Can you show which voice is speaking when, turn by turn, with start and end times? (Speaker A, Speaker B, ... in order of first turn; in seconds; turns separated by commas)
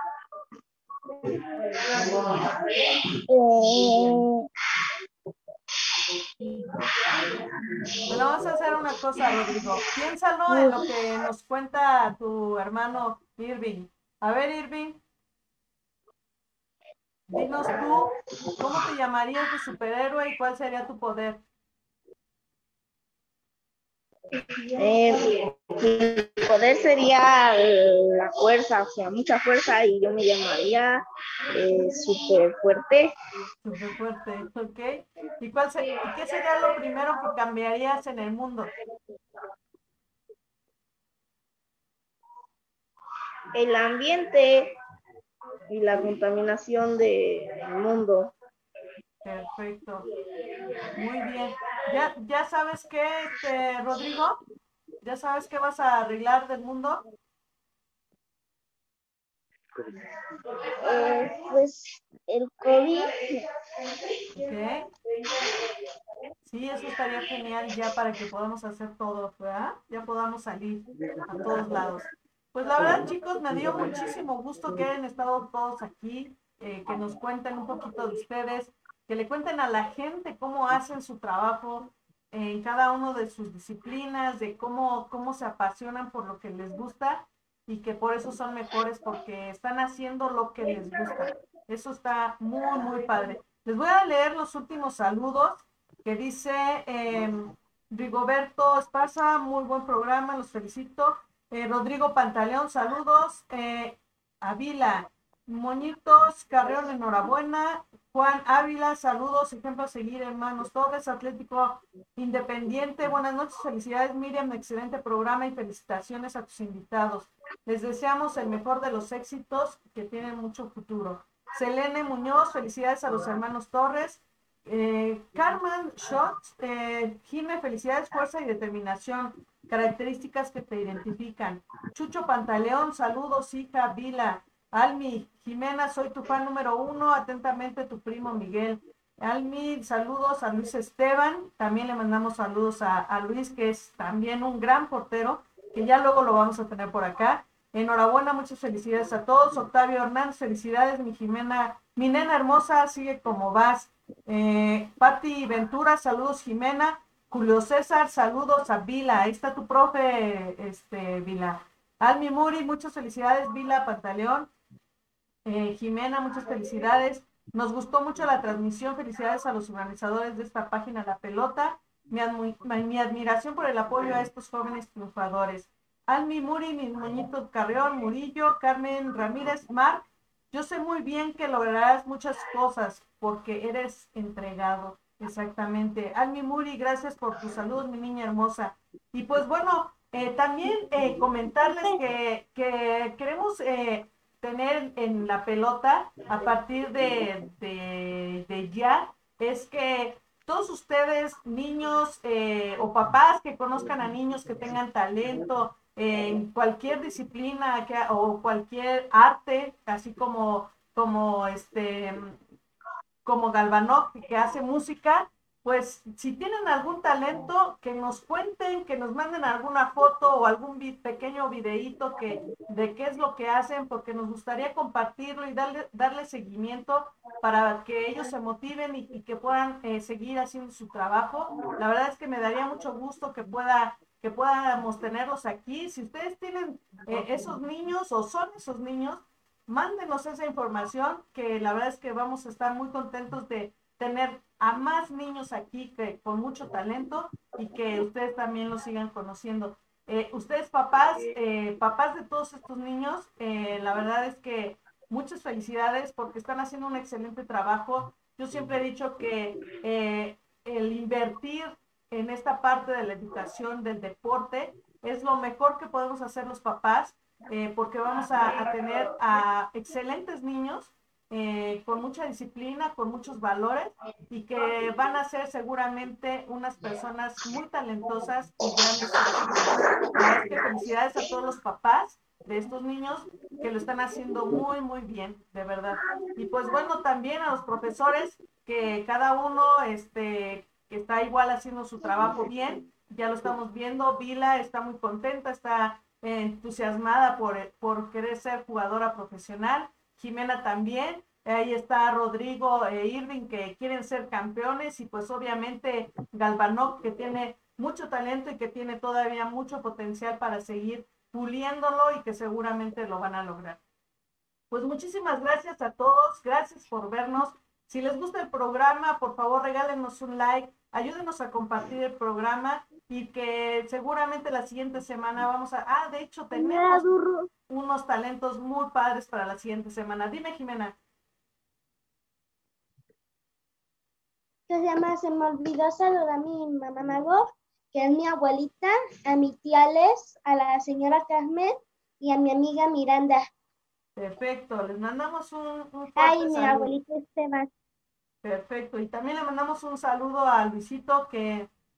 Speaker A: 3.3-4.5, Speaker B: 8.1-15.0, Speaker B: 17.3-21.4, Speaker A: 24.8-33.1, Speaker B: 33.6-38.7, Speaker A: 43.5-44.7, Speaker A: 45.7-48.3, Speaker B: 49.2-50.0, Speaker B: 50.9-54.4, Speaker B: 55.0-57.0, Speaker A: 60.8-63.5, Speaker B: 64.3-64.9, Speaker B: 66.5-164.5, Speaker B: 165.4-212.4, Speaker B: 213.2-313.8, Speaker B: 314.7-327.1, Speaker C: 326.5-327.5, Speaker B: 327.7-330.9, Speaker C: 334.7-343.5, Speaker B: 344.2-346.9, Speaker C: 346.2-347.7, Speaker B: 348.4-351.7